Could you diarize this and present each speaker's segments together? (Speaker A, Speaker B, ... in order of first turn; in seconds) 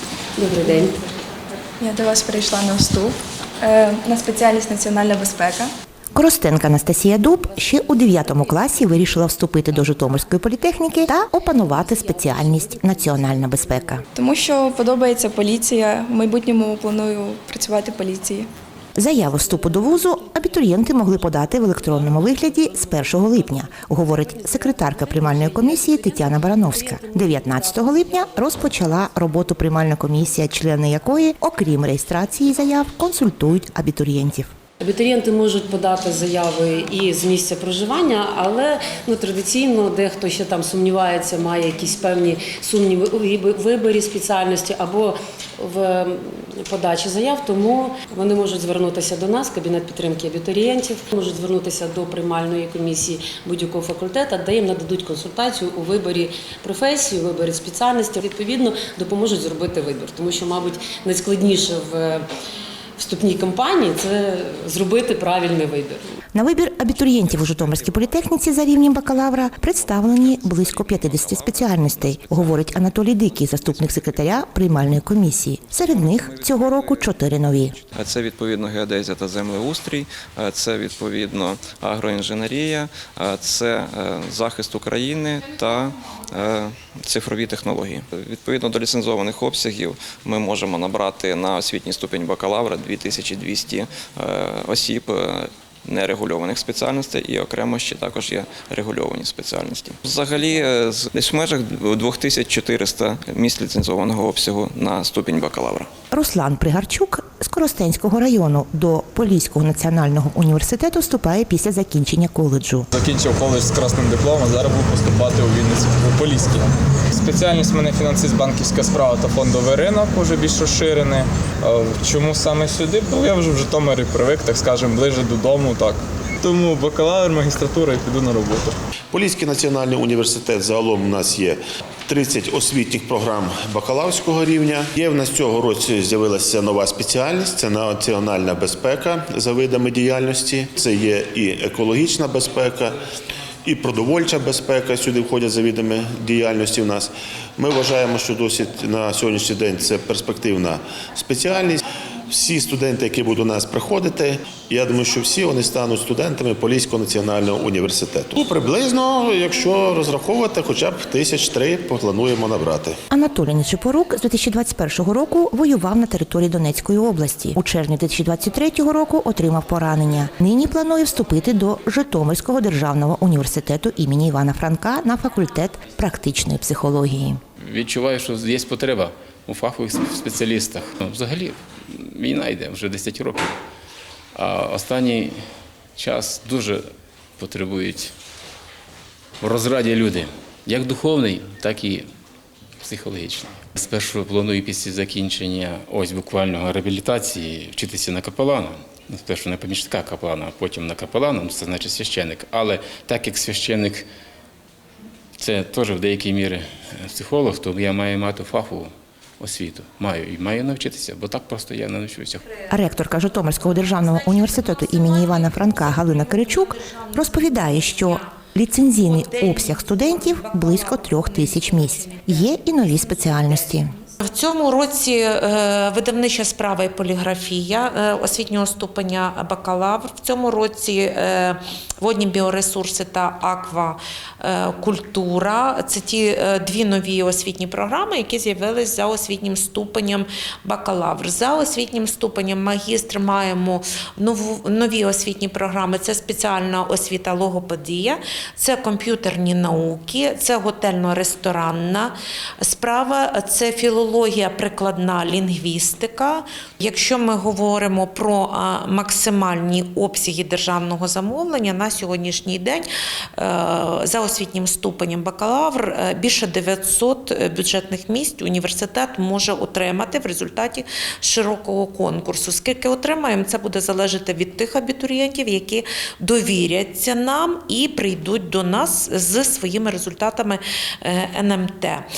Speaker A: 0.4-1.0, 7.5-9.1, 11.1-14.0, 19.3-28.9, 34.8-62.3, 63.0-66.0
Speaker B: 1.8-5.7, 14.2-18.5
Speaker C: 6.1-14.0, 19.0-34.5, 66.3-77.8, 106.1-112.9, 163.1-177.4, 212.7-223.9
Speaker D: 66.8-68.3, 69.0-74.7, 75.3-105.9
Speaker E: 112.9-128.8
Speaker F: 129.1-142.9, 143.6-163.0
Speaker G: 177.6-183.5, 184.3-185.3, 185.9-186.8, 187.4-188.1, 189.4-192.1, 192.8-204.1, 205.4-212.4
Speaker H: 224.2-262.8, 263.4-282.0